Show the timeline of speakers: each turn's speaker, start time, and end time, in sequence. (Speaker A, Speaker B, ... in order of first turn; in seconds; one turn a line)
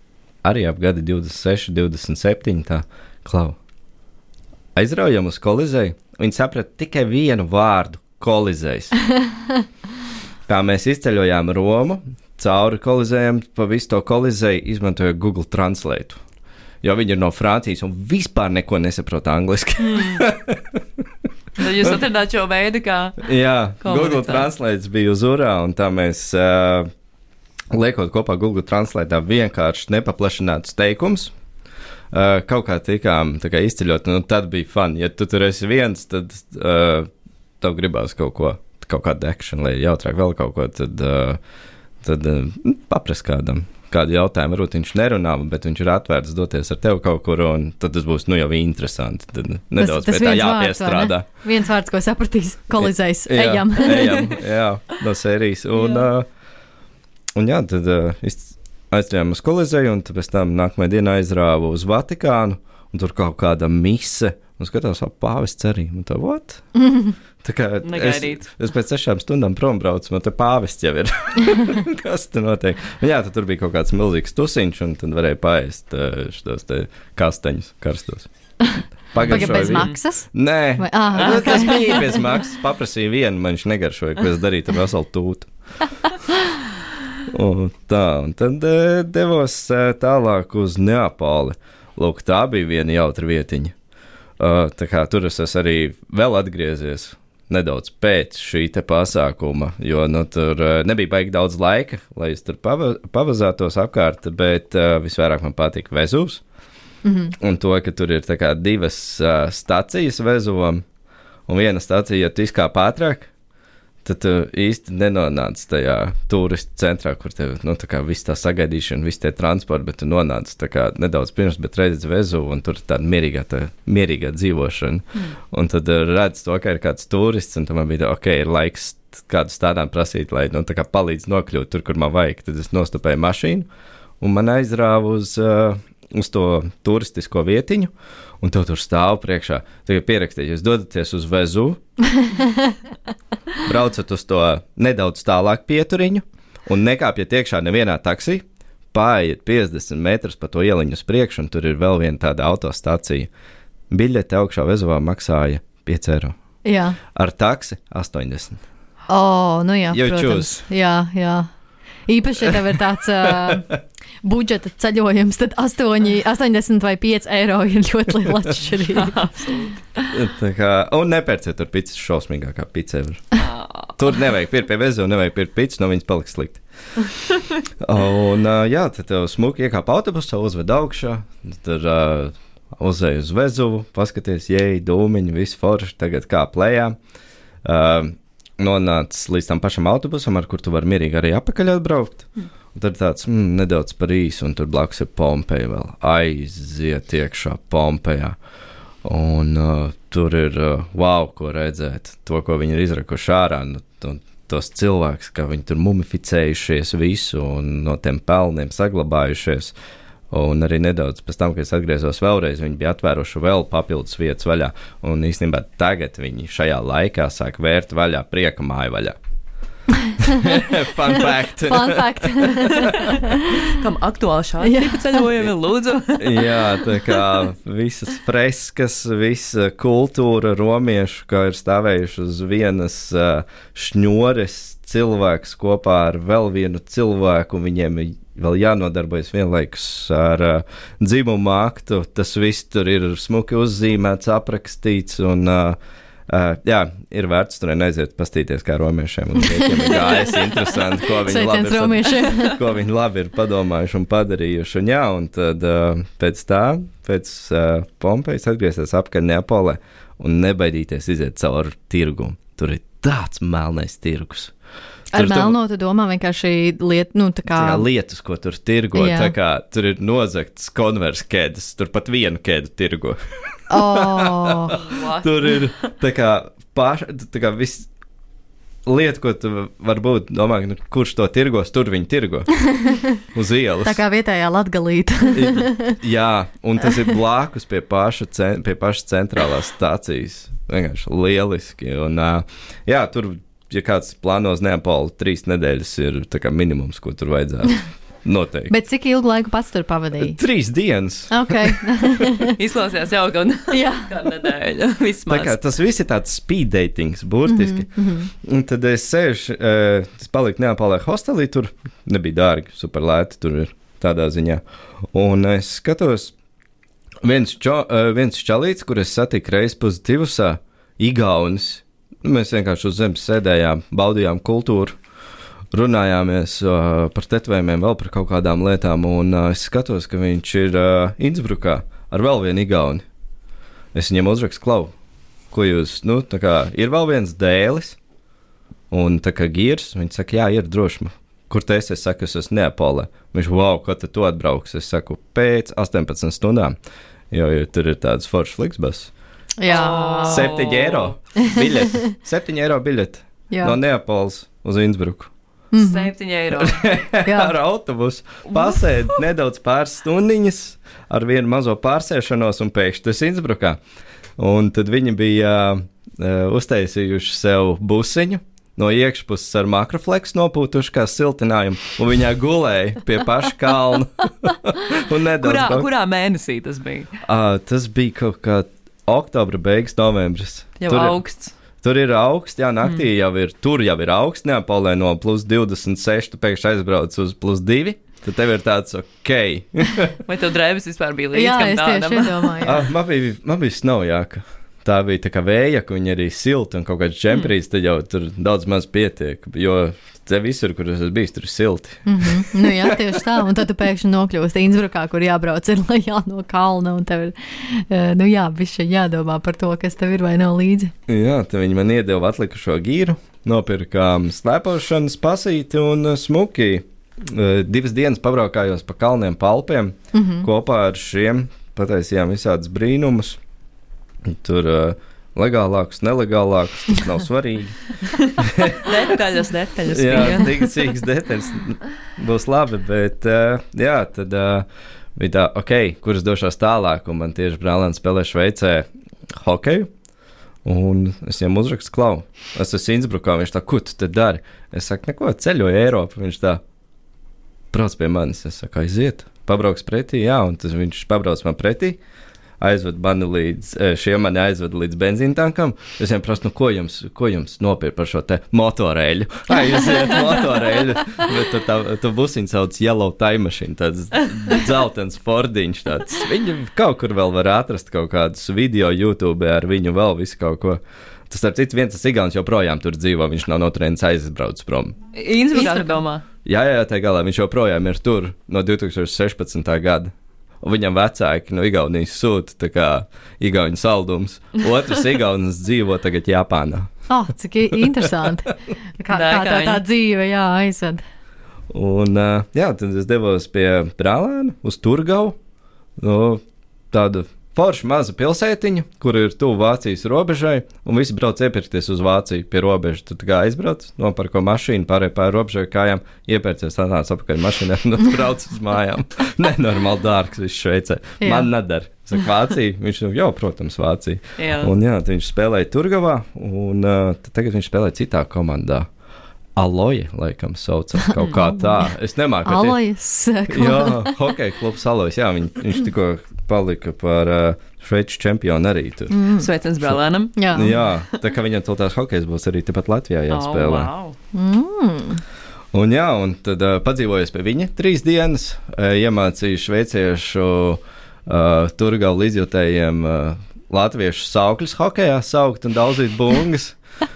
Speaker A: 0.4-3.6
Speaker A: 4.8-8.9
Speaker A: 10.5-16.2
Speaker A: 16.8-21.0
Speaker B: 19.8-20.2
Speaker B: 21.6-23.3
Speaker A: 21.6-22.0
Speaker A: 23.2-26.9
Speaker B: 23.8-24.5
Speaker A: 27.7-31.3
Speaker A: 32.1-37.1
Speaker A: 37.6-41.4
Speaker A: 42.0-51.3
Speaker C: 49.8-54.4
Speaker A: 52.8-56.3
Speaker A: 57.4-66.6
Speaker A: 67.4-78.3
Speaker B: 67.8-68.5
Speaker C: 78.6-82.2
Speaker A: 79.1-85.5
Speaker B: 79.2-79.9
Speaker A: 87.3-93.7
Speaker A: 94.4-106.4
Speaker C: 107.0-107.3
Speaker A: 107.4-110.8
Speaker A: 111.5-113.3
Speaker A: 114.0-133.7
Speaker A: 134.2-141.8
Speaker A: 143.6-153.3
Speaker A: 153.9-156.3
Speaker C: 156.7-157.0
Speaker A: 157.1-158.6
Speaker C: 159.1-161.5
Speaker A: 159.9-160.6
Speaker C: 162.1-163.7
Speaker C: 164.2-169.7
Speaker B: 168.9-170.1
Speaker A: 170.1-173.4
Speaker B: 173.4-173.9
Speaker A: 174.0-176.6
Speaker A: 177.8-187.0
Speaker A: 187.6-198.4
Speaker A: 199.0-209.8
Speaker A: 210.3-219.2
Speaker A: 220.2-223.1
Speaker C: 221.6-223.8
Speaker B: 222.9-223.1
Speaker B: 223.6-227.3
Speaker C: 224.6-225.2
Speaker A: 226.2-245.8
Speaker A: 246.3-264.5
Speaker C: 249.6-252.6
Speaker C: 265.1-267.9
Speaker A: 265.1-265.6
Speaker A: 267.6-277.9
Speaker C: 268.9-269.3
Speaker C: 273.7-274.8
Speaker B: 274.7-275.9
Speaker A: 278.9-282.5
Speaker C: 282.6-283.0
Speaker A: 283.2-284.0
Speaker C: 283.8-286.0
Speaker A: 285.3-298.7
Speaker C: 298.7-300.4
Speaker A: 300.2-302.2
Speaker C: 301.3-302.6
Speaker B: 302.5-305.6
Speaker C: 303.7-304.4
Speaker A: 305.3-314.6
Speaker C: 307.5-308.3
Speaker A: 315.1-316.4
Speaker A: 317.2-325.0
Speaker A: 325.7-333.0
Speaker A: 333.9-334.9
Speaker A: 335.5-338.0
Speaker A: 338.9-346.8
Speaker A: 347.3-349.1
Speaker C: 349.6-350.5
Speaker B: 349.7-351.1
Speaker A: 350.2-355.3
Speaker C: 351.4-352.1
Speaker C: 353.5-353.8
Speaker C: 355.7-356.1
Speaker B: 355.8-356.9
Speaker A: 356.5-363.8
Speaker C: 357.2-357.6
Speaker B: 358.5-359.2
Speaker A: 364.4-375.9
Speaker B: 375.4-377.1
Speaker A: 377.2-381.2
Speaker B: 380.8-381.5
Speaker A: 381.8-390.2
Speaker B: 390.2-392.6
Speaker C: 391.3-392.8
Speaker A: 392.6-403.2
Speaker C: 402.1-410.9
Speaker A: 411.1-423.4
Speaker C: 420.1-420.5
Speaker A: 424.2-428.9
Speaker B: 428.7-430.7
Speaker A: 429.9-439.9
Speaker A: 440.6-446.6
Speaker A: 447.7-452.0
Speaker A: 452.6-475.0
Speaker B: 475.1-476.2
Speaker C: 475.5-475.9
Speaker A: 476.4-486.9
Speaker C: 487.1-491.0
Speaker B: 489.1-489.8
Speaker A: 491.7-495.4
Speaker A: 496.0-518.9
Speaker C: 511.2-511.5
Speaker B: 514.4-514.7
Speaker A: 519.6-522.8
Speaker C: 521.0-521.8
Speaker C: 522.5-524.2
Speaker A: 523.5-529.2
Speaker C: 529.1-529.5
Speaker B: 529.4-531.2
Speaker C: 530.4-530.8
Speaker A: 530.5-533.9
Speaker B: 533.3-534.2
Speaker C: 534.3-535.2
Speaker A: 535.7-546.8